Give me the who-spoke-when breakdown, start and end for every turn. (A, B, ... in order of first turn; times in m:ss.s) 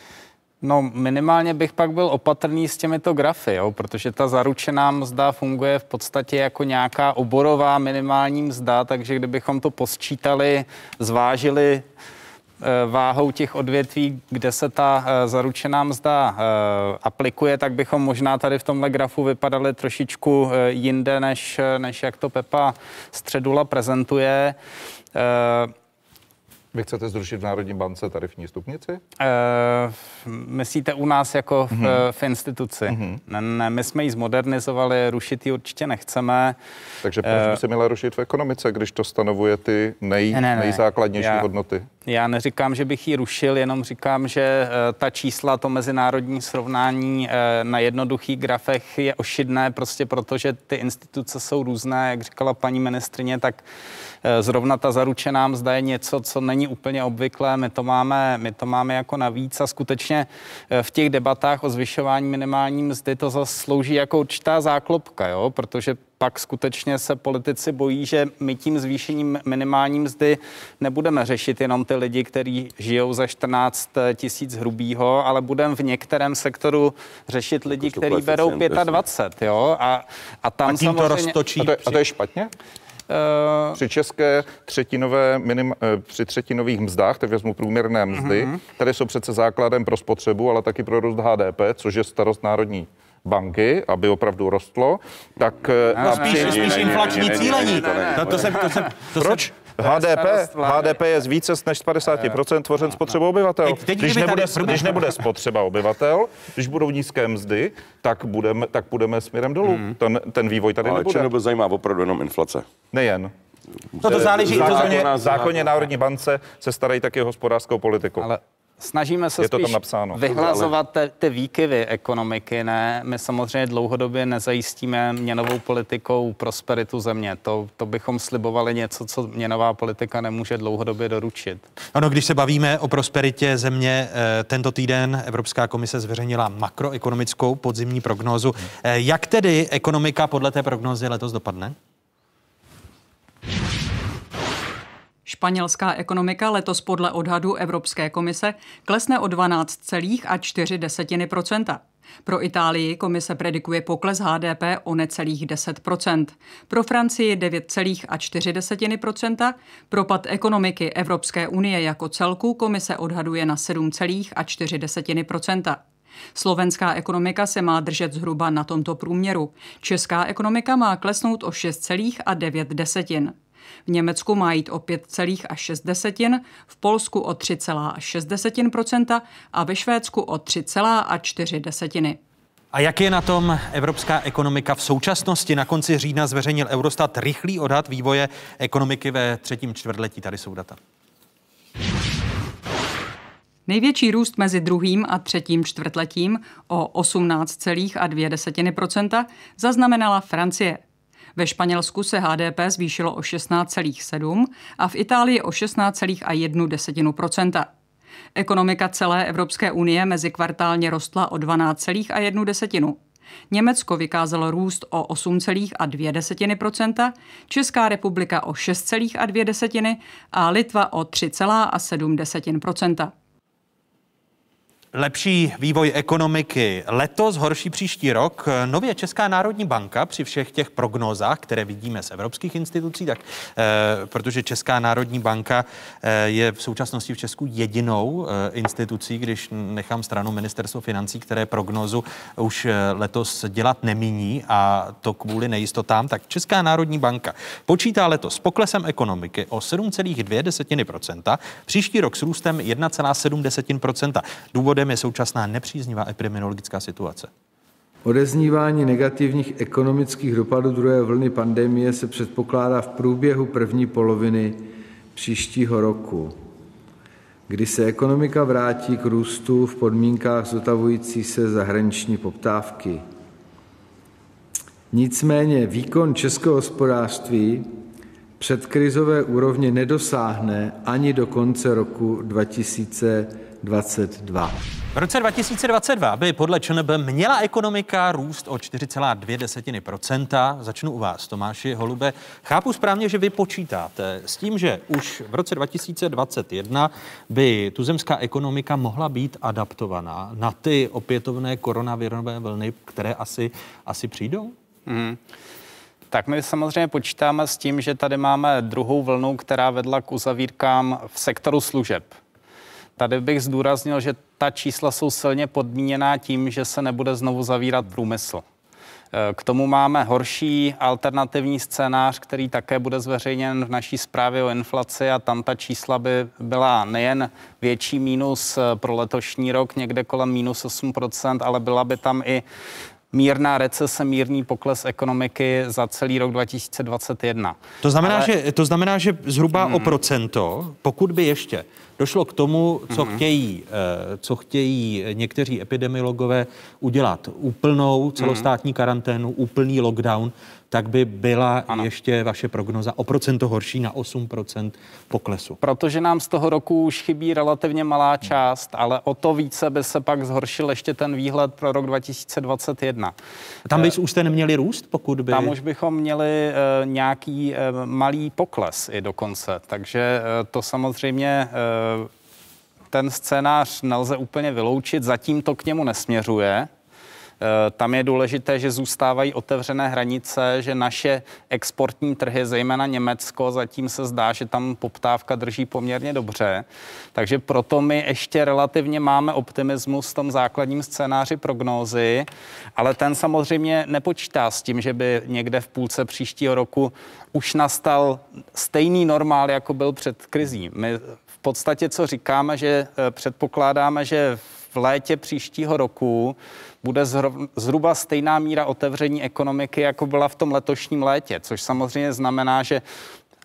0:00.6-0:11.8 A
0:12.6-0:24.6 A
0:25.1-0:25.7 A
0:26.7-0:29.0 B
0:29.2-0:36.6 A
0:31.7-0:32.0 B
0:32.9-0:33.2 B
0:37.0-0:41.9 B
0:37.2-0:37.6 A
0:40.3-0:41.4 A
0:42.0-0:53.6 A
0:54.2-1:21.5 A
1:17.7-1:19.0 C
1:20.6-1:22.0 D
1:21.6-1:22.5 B
1:23.1-1:23.8 A
1:23.8-1:36.5 B
1:28.2-1:28.6 A
1:36.0-1:38.5 C
1:36.0-1:39.1 A
1:36.0-1:39.5 D
1:39.2-1:51.3 B
1:39.7-1:41.1 A
1:43.6-1:45.1 D
1:49.7-1:49.9 A
1:50.8-1:52.7 C
1:52.9-1:53.3 B
1:54.0-1:55.8 C
1:54.0-1:55.1 D
1:54.2-1:58.3 B
1:58.2-2:11.6 A
1:59.4-2:00.4 B
2:00.4-2:00.7 C
2:11.9-2:21.8 D
2:25.3-2:45.8 E
2:46.3-2:53.3 E
2:53.9-3:02.2 E
3:02.7-3:10.8 D
3:13.7-3:20.8 E
3:21.4-3:27.7 E
3:28.3-3:33.0 E
3:33.5-3:43.1 E
3:44.9-4:17.3 D
4:18.0-4:26.4 F
4:27.5-4:33.0 F
4:34.9-4:37.7 F
4:38.4-4:44.6 F
4:44.9-5:04.5 D
5:04.9-5:05.2 A
5:06.1-5:12.1 A
5:13.0-5:18.4 A
5:19.1-5:32.4 A
5:33.1-5:38.3 A
5:37.8-5:55.6 D
5:39.5-5:40.0 A
5:42.9-5:43.2 A
5:48.2-5:48.4 A
5:55.6-6:03.1 A
6:03.6-6:05.6 D
6:03.7-6:04.0 A
6:05.3-6:12.1 A
6:12.9-6:16.7 A
6:17.4-6:52.8 A